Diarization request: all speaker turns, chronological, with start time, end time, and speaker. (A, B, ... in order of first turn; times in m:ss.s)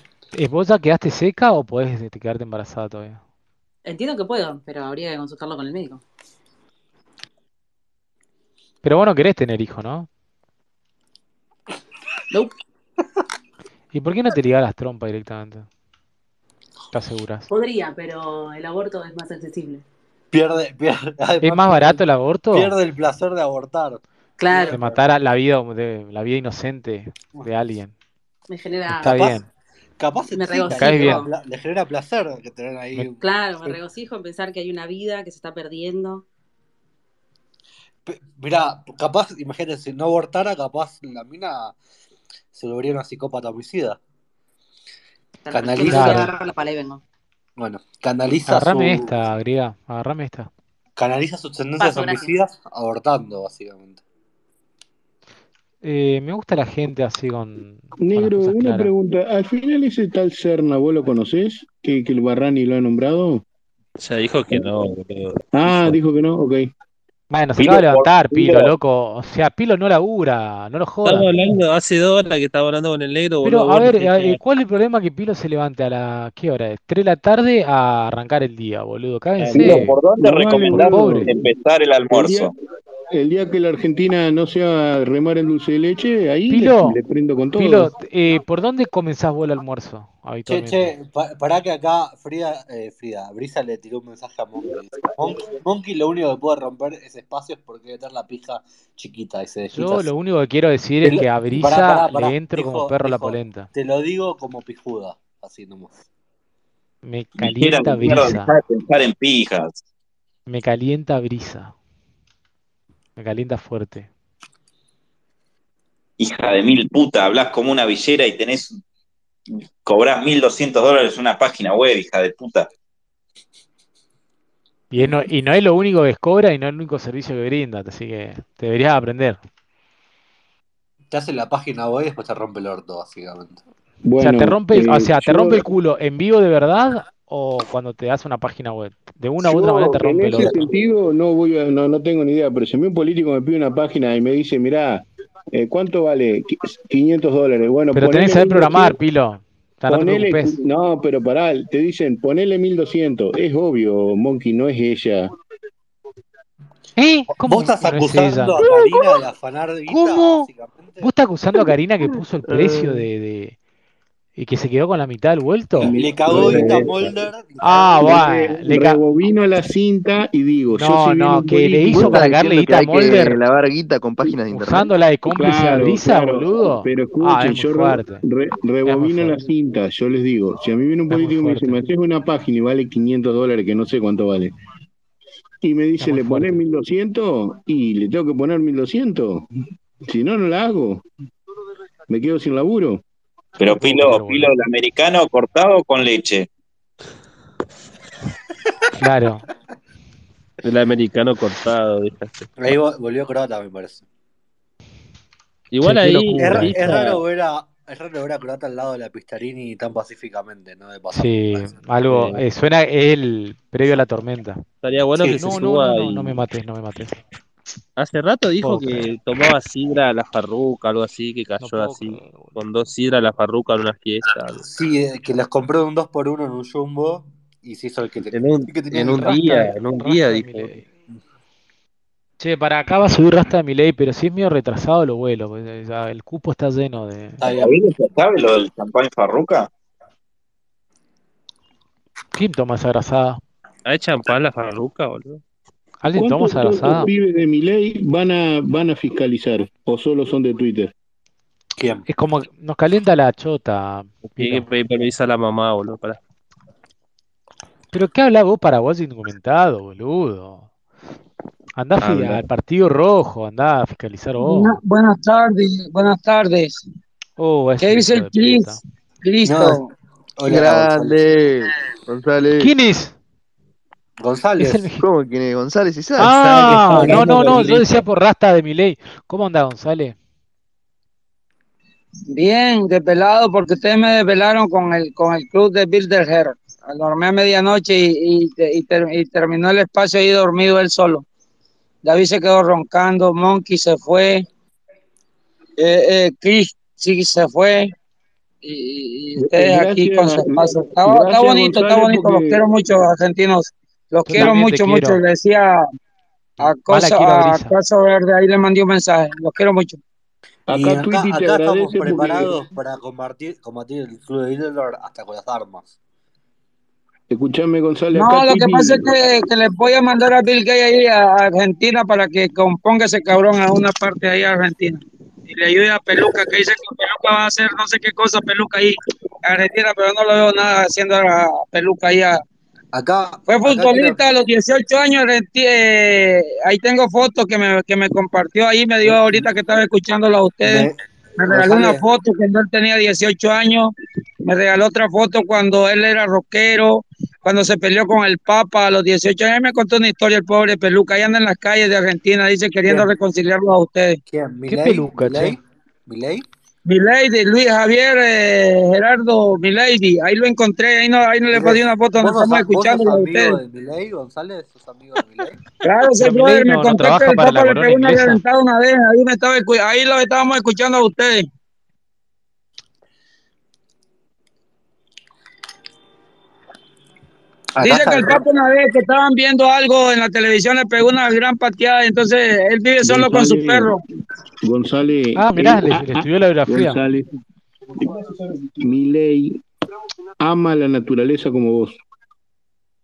0:00.3-0:03.2 A
0:03.8-0:06.0 B
0:08.8-0:10.1 A
0:13.9-0:15.7 A
0:16.9-0:17.5 A
0:17.5-0:19.8 B
0:20.3-0:25.0 C
0:21.4-0:22.7 A
0:24.4-0:24.8 B
0:24.7-0:27.9 A
0:28.5-0:29.4 B
0:28.9-0:29.5 A
0:30.0-0:33.8 C
0:30.3-0:31.3 B
0:30.7-0:31.2 A
0:33.2-0:36.2 B
0:38.1-0:41.8 C
0:42.5-0:44.0 C
0:45.4-0:47.0 B
0:45.5-0:46.3 C
0:45.9-0:46.3 A
0:47.6-0:49.1 C
0:48.5-0:50.5 A
0:51.0-0:54.0 C
0:51.8-0:52.3 B
0:55.8-0:58.9 A
0:58.0-1:03.4 D
1:04.0-1:06.0 E
1:05.5-1:06.7 D
1:07.3-1:11.3 A
1:07.6-1:08.7 F
1:11.0-1:14.4 E
1:13.4-1:20.0 A
1:19.4-1:19.8 E
1:19.5-1:21.4 D
1:19.6-1:22.5 F
1:20.6-1:21.3 A
1:22.1-1:22.5 D
1:23.1-1:28.0 D
1:26.5-1:27.0 A
1:27.6-1:30.9 A
1:30.5-1:40.1 C
1:39.7-1:43.7 A
1:41.0-1:46.0 C
1:47.0-1:48.5 A
1:47.4-1:49.8 F
1:50.5-1:51.7 A
1:53.2-1:54.1 A
1:56.2-1:58.8 F
1:59.8-2:02.7 F
2:04.9-2:09.4 A
2:11.1-2:13.6 C
2:14.0-2:15.7 D
2:14.2-2:20.7 A
2:19.4-2:29.0 D
2:20.3-2:20.6 C
2:27.9-2:30.6 A
2:29.9-2:35.3 D
2:37.0-2:38.6 A
2:37.4-2:41.1 C
2:39.9-2:40.5 A
2:41.0-2:43.6 A
2:44.4-2:46.7 A
2:45.8-2:47.2 D
2:45.9-2:48.4 C
2:47.6-2:49.0 A
2:48.0-2:52.4 D
2:50.8-2:53.4 A
2:51.9-2:54.9 G
2:54.5-2:58.2 A
2:55.3-3:04.5 D
2:58.9-2:59.4 A
3:01.1-3:01.9 A
3:05.6-3:09.5 D
3:06.0-3:06.6 A
3:10.1-3:11.0 D
3:12.1-3:13.0 D
3:13.6-3:16.5 F
3:13.7-3:14.5 A
3:19.0-3:19.4 A
3:20.6-3:22.5 E
3:22.6-3:24.1 C
3:25.7-3:27.2 E
3:25.8-3:27.1 A
3:26.4-3:31.8 C
3:31.1-3:34.6 A
3:32.1-3:32.4 E
3:34.8-3:36.4 E
3:35.2-3:35.6 C
3:35.3-3:37.2 A
3:38.0-3:44.6 E
3:38.6-3:39.0 A
3:41.6-3:42.6 A
3:44.6-3:49.4 C
3:48.3-3:50.8 E
3:49.1-3:50.9 A
3:52.4-3:57.5 A
3:57.4-3:57.8 C
3:57.5-3:59.7 F
4:02.3-4:03.4 A
4:03.9-4:05.4 E
4:06.0-4:07.1 A
4:06.1-4:10.9 D
4:11.8-4:12.1 C
4:12.1-4:14.7 A
4:14.3-4:16.2 E
4:17.9-4:20.7 A
4:21.8-4:24.8 A
4:22.0-4:22.4 E
4:24.4-4:26.8 H
4:27.4-4:28.8 A
4:27.8-4:28.7 H
4:29.2-4:29.9 H
4:29.4-4:29.8 C
4:30.4-4:31.4 C
4:30.4-4:32.7 G
4:32.6-4:33.2 A
4:34.2-4:34.9 C
4:34.6-4:35.0 A
4:35.0-4:36.4 G
4:36.2-4:40.2 A
4:36.3-4:37.9 E
4:36.6-4:38.0 C
4:42.3-4:51.2 H
4:52.0-4:54.5 H
4:55.8-4:57.9 H
4:58.6-5:05.8 H
4:59.4-5:02.6 D
5:04.3-5:05.2 A
5:06.6-5:10.0 H
5:06.9-5:07.7 A
5:10.7-5:12.6 D
5:10.7-5:16.0 C
5:17.3-5:19.1 D
5:18.1-5:32.4 H
5:32.9-5:34.2 C
5:33.5-5:43.9 H
5:39.0-5:39.5 C
5:40.6-5:41.0 C
5:41.5-5:42.0 C
5:44.5-5:54.2 H
5:52.9-5:53.1 C
5:54.3-5:56.5 C
5:54.7-5:55.6 A
5:56.9-6:03.6 H
6:01.5-6:05.6 C
6:05.8-6:11.4 H
6:06.2-6:08.4 A
6:17.8-6:18.4 C
6:17.8-6:24.0 H
6:23.0-6:24.0 D
6:24.6-6:27.3 D
6:25.4-6:27.0 A
6:28.0-6:29.6 D
6:30.4-6:32.0 D